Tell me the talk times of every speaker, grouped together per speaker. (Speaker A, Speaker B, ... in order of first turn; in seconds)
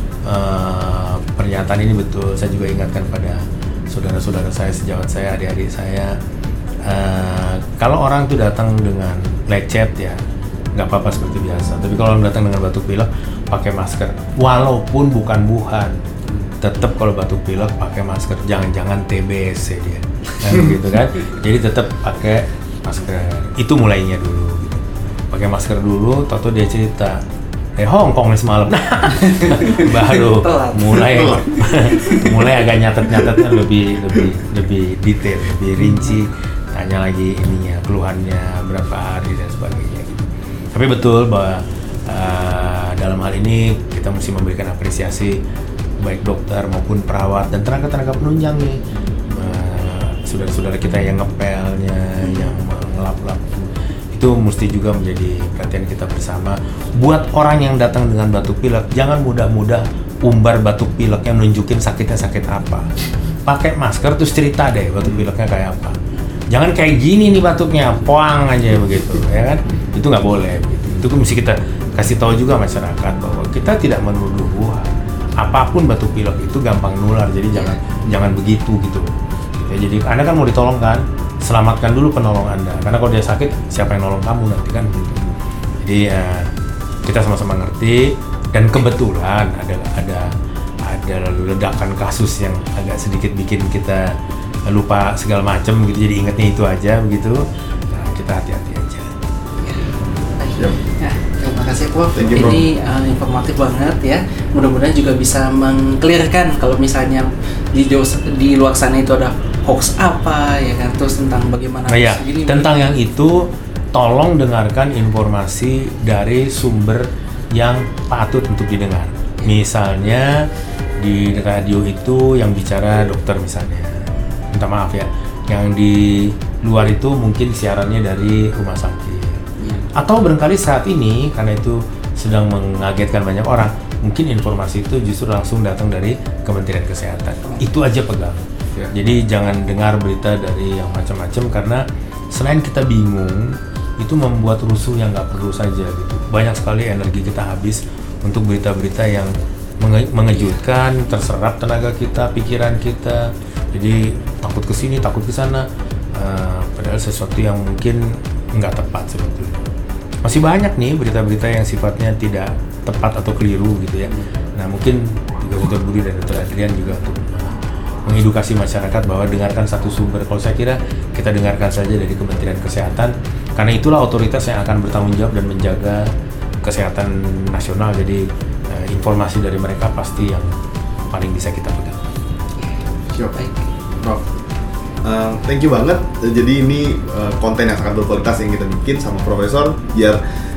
Speaker A: 0.2-6.2, 6.8-10.2, 10.7-16.0, 16.6-27.2, 27.8-45.4, 46.0-62.9, 63.5-66.0, 66.5-85.0, 85.8-86.5, 87.0-90.3, 90.8-94.2, 94.7-99.1, 111.9-120.5, 121.0-159.6, 160.2-176.1, 176.6-180.5, 181.1-182.1
Speaker B: 29.3-32.4, 35.9-36.1, 52.3-52.5, 77.5-77.8, 99.6-113.0, 129.6-129.8, 150.3-150.6, 182.6-182.8, 183.3-183.7
Speaker C: 31.0-31.9, 84.9-85.3, 102.1-102.6, 183.1-183.4, 183.9-184.3, 185.0-190.2